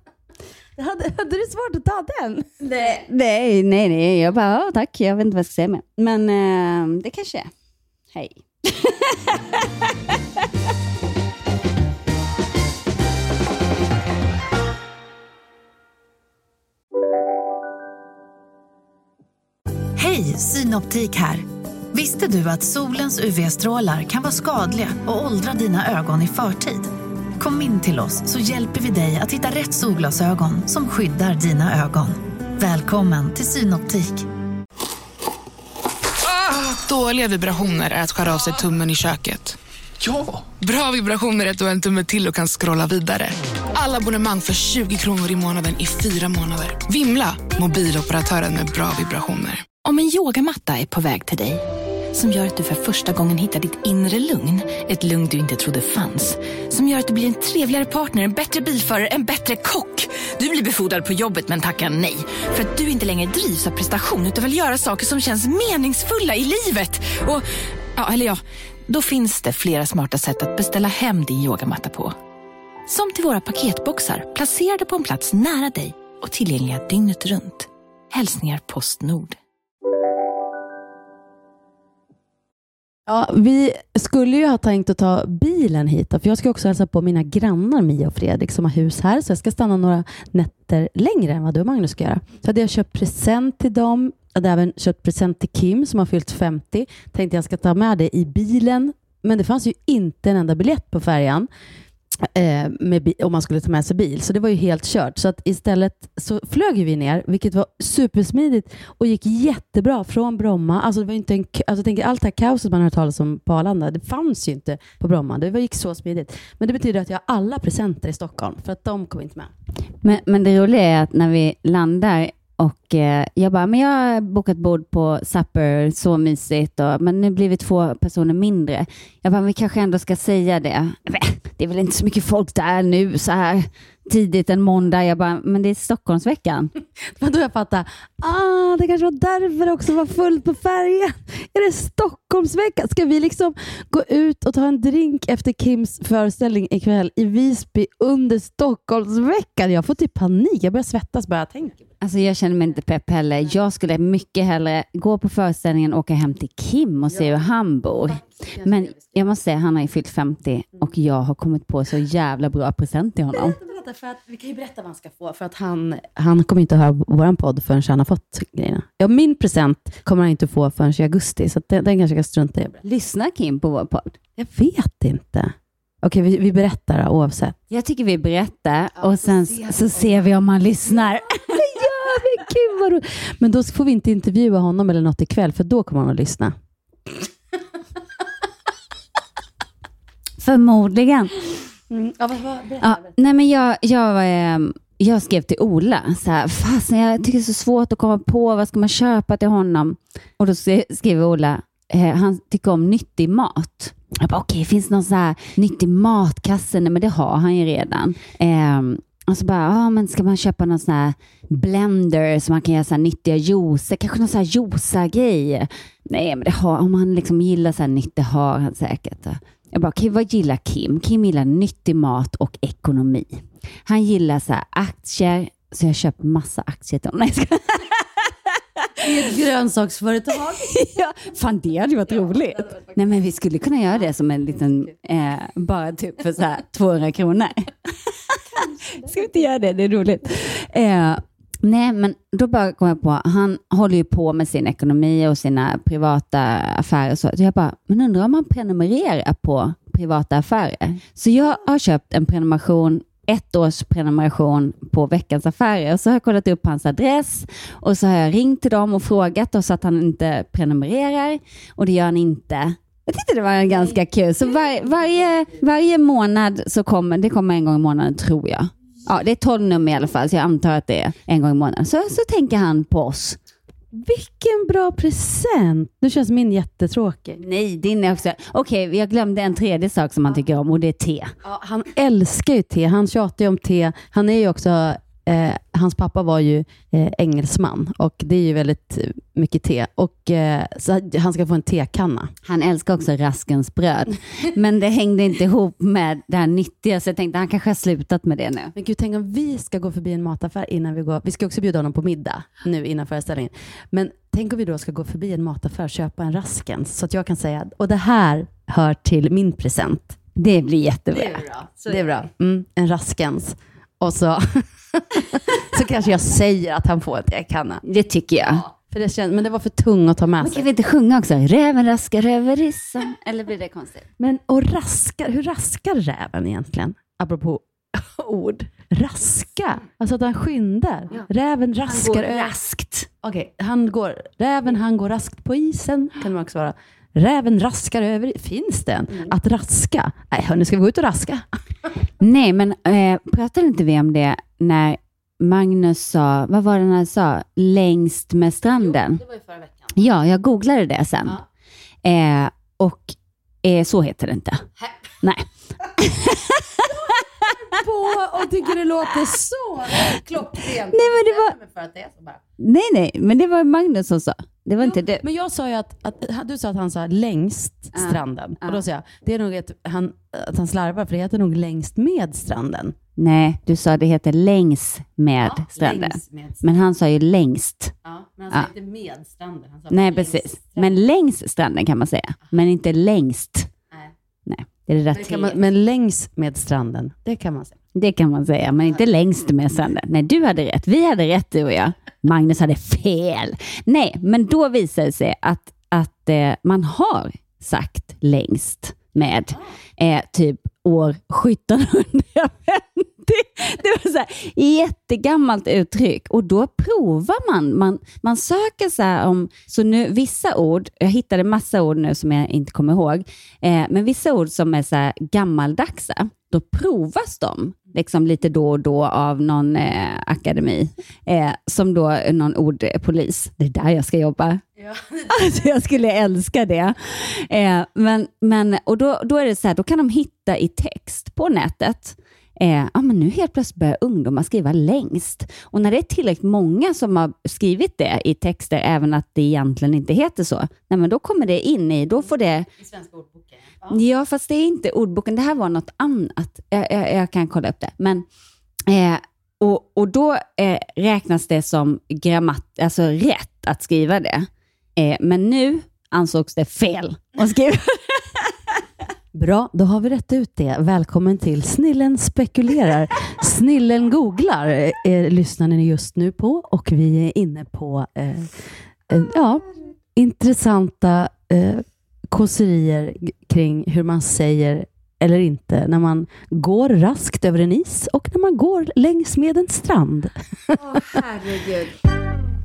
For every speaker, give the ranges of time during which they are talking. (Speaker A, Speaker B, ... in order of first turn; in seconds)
Speaker A: 0.8-2.6, 83.1-101.5, 102.2-119.5, 137.1-151.8, 157.1-157.4, 158.0-159.2, 163.3-172.8, 174.4-177.6, 181.5-186.6, 191.9-193.2, 229.0-230.7, 232.2-232.8, 264.8-265.2, 273.9-277.4, 281.4-292.3, 298.8-310.2, 311.1-317.8, 318.5-320.7, 324.2-341.9, 348.8-350.0, 356.8-362.4, 364.8-372.9, 375.4-376.7, 378.1-380.9, 385.1-387.8, 424.8-425.3, 442.7-444.0, 459.3-468.6, 469.1-481.0
Speaker B: 2.6-7.5, 8.1-9.9, 120.0-136.7, 152.0-163.6, 172.8-174.2, 177.7-181.6, 190.4-191.4, 192.8-228.3, 230.6-273.4, 277.4-281.3, 292.4-298.7, 310.4-311.9, 317.8-318.6, 320.4-324.1, 331.9-333.0, 342.2-349.2, 349.9-351.4, 352.0-354.7, 355.2-357.5, 360.9-361.6, 362.6-365.2, 367.9-368.8, 373.2-377.9, 379.9-383.7, 384.5-385.6, 387.9-424.6, 425.3-442.7, 443.9-448.2, 448.9-458.6, 480.8-482.0
Speaker C: 19.9-34.3
Speaker D: 36.2-39.6, 40.1-49.7
Speaker E: 49.8-67.4, 68.0-72.2, 72.9-79.4